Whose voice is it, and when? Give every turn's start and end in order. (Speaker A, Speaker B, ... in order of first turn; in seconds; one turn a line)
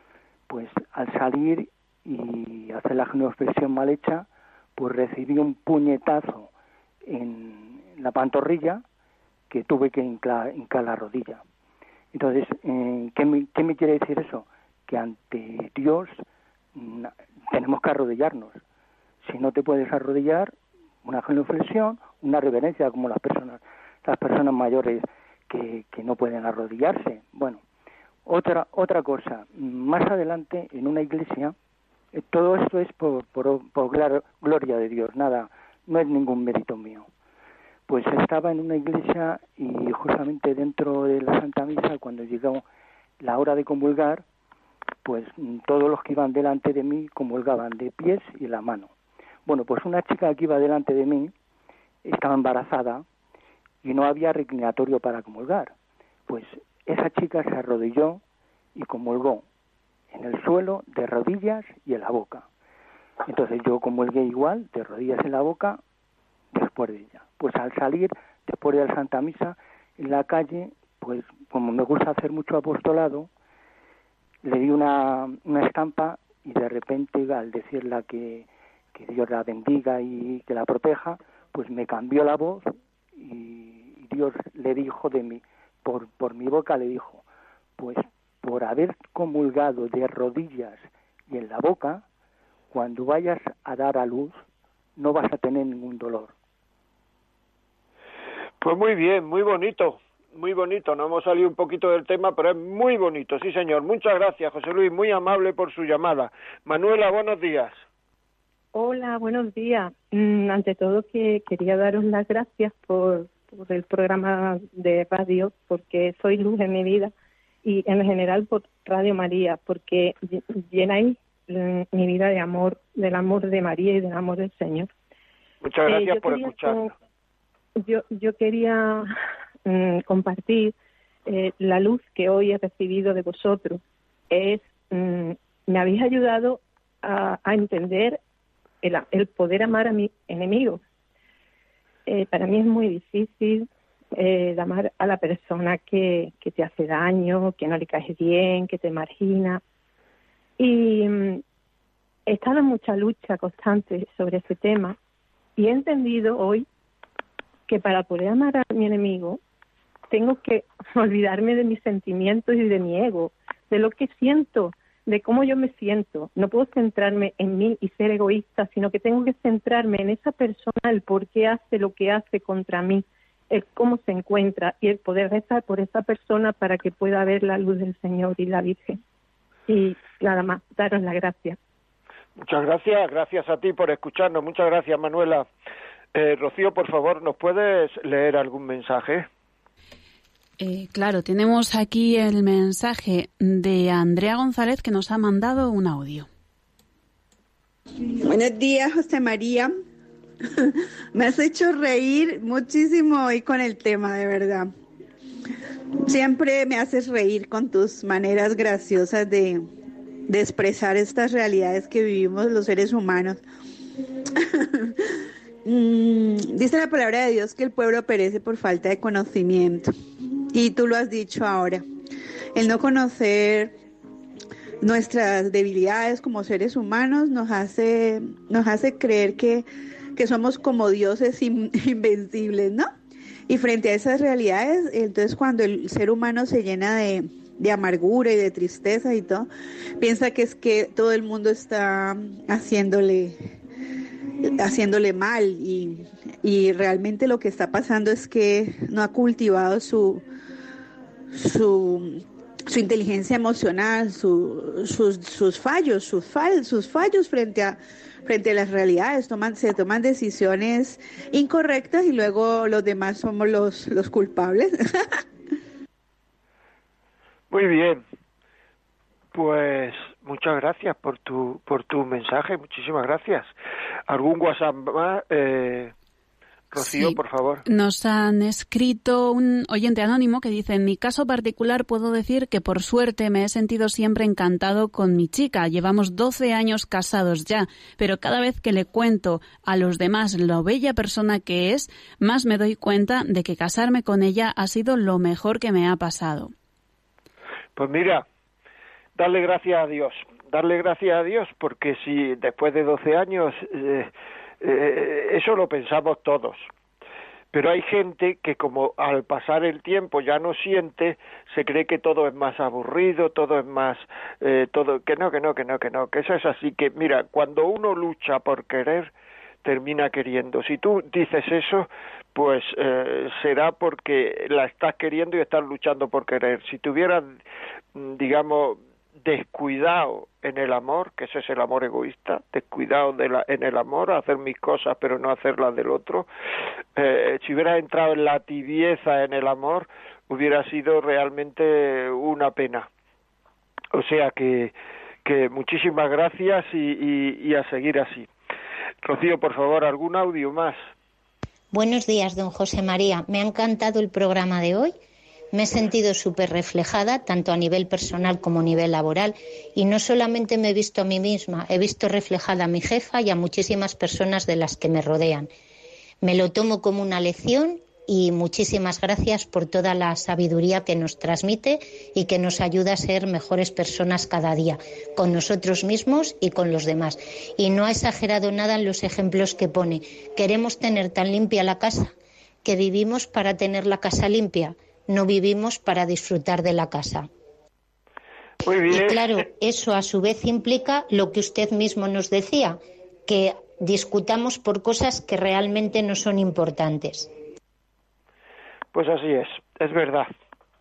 Speaker A: 0.5-6.5
Speaker A: 7.1-8.8
Speaker A: 9.5-11.4
Speaker A: 12.1-16.2
Speaker A: 16.8-18.6
Speaker A: 19.2-27.6
Speaker A: 28.2-31.6
Speaker A: 32.1-37.1
Speaker A: 37.9-42.6
Speaker A: 43.2-44.2
Speaker A: 45.0-48.9
Speaker A: 49.5-51.3
Speaker A: 52.0-53.0
Speaker A: 53.8-55.7
Speaker A: 56.3-58.2
Speaker A: 58.8-59.4
Speaker A: 60.1-62.5
Speaker A: 63.2-65.8
Speaker A: 66.5-73.3
Speaker A: 74.4-87.2
Speaker A: 87.8-92.0
Speaker A: 92.7-94.4
Speaker A: 95.0-96.3
Speaker B: 98.6-107.8
Speaker C: 108.7-117.1
Speaker C: 117.6-124.9
Speaker B: 125.6-126.9
Speaker C: 125.9-126.9
Speaker C: 127.8-129.1
Speaker C: 129.7-130.8
Speaker C: 131.3-138.2
Speaker C: 138.8-140.8
Speaker C: 142.1-149.6
Speaker C: 150.6-151.4
Speaker C: 152.3-155.0
Speaker C: 155.6-156.7
Speaker C: 157.7-159.4
Speaker C: 160.1-179.0
Speaker C: 179.7-181.6
Speaker B: 182.4-185.5
Speaker B: 186.1-189.3
Speaker D: 190.6-196.3
Speaker E: 198.2-199.7
Speaker E: 200.6-204.7
Speaker E: 206.1-209.7
Speaker E: 210.3-213.4
Speaker E: 214.4-215.1
Speaker E: 215.7-219.9
Speaker E: 220.5-221.8
Speaker E: 222.6-223.8
Speaker E: 224.8-232.9
Speaker E: 233.5-239.5
Speaker E: 240.0-243.5
Speaker E: 244.5-250.2
Speaker E: 251.3-265.2
Speaker B: 267.5-268.0
Speaker B: 269.3-273.5
Speaker B: 274.1-275.9
Speaker B: 276.7-277.6
Speaker D: 276.8-296.5
Speaker B: 297.8-298.2
Speaker B: 299.2-306.7
Speaker B: 307.5-319.1
Speaker B: 319.6-327.4
Speaker B: 327.9-336.3
Speaker B: 337.0-342.9
Speaker B: 343.9-344.7
Speaker B: 345.2-348.3
Speaker B: 349.0-350.8
Speaker F: 351.7-354.9
Speaker F: 355.5-365.5
Speaker F: 366.2-382.1
Speaker F: 382.6-387.3
Speaker B: 388.6-389.5
Speaker F: 388.9-397.3
Speaker B: 398.9-400.3